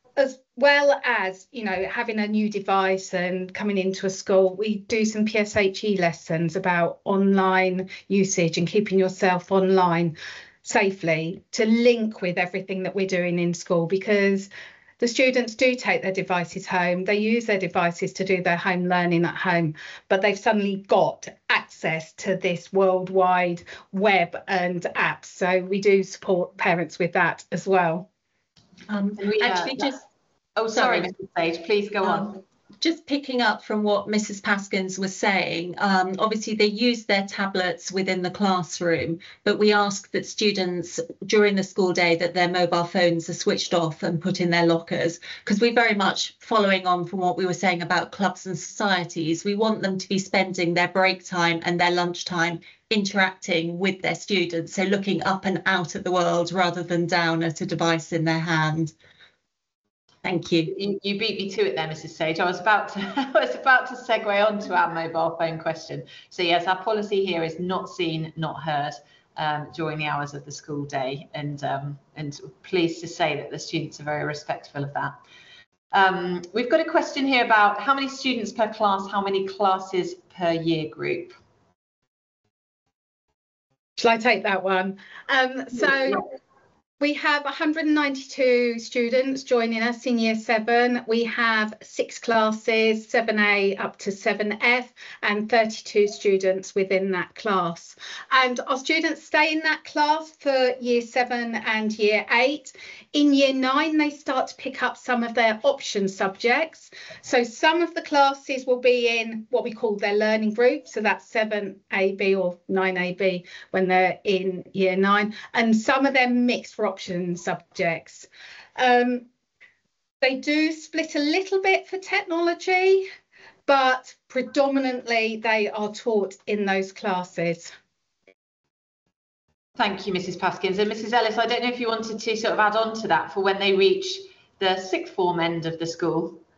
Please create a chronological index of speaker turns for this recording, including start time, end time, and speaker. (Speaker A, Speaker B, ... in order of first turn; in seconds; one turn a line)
Speaker A: 0.2-28.1
Speaker B: 28.9-30.0
Speaker C: 29.2-30.0
Speaker C: 30.6-32.4
Speaker B: 30.7-31.1
Speaker B: 32.0-58.9
Speaker B: 60.2-60.7
Speaker C: 60.7-75.2
Speaker C: 75.9-81.3
Speaker A: 84.0-86.2
Speaker A: 87.0-119.3
Speaker A: 120.2-123.0
Speaker A: 123.7-127.7
Speaker C: 129.8-136.4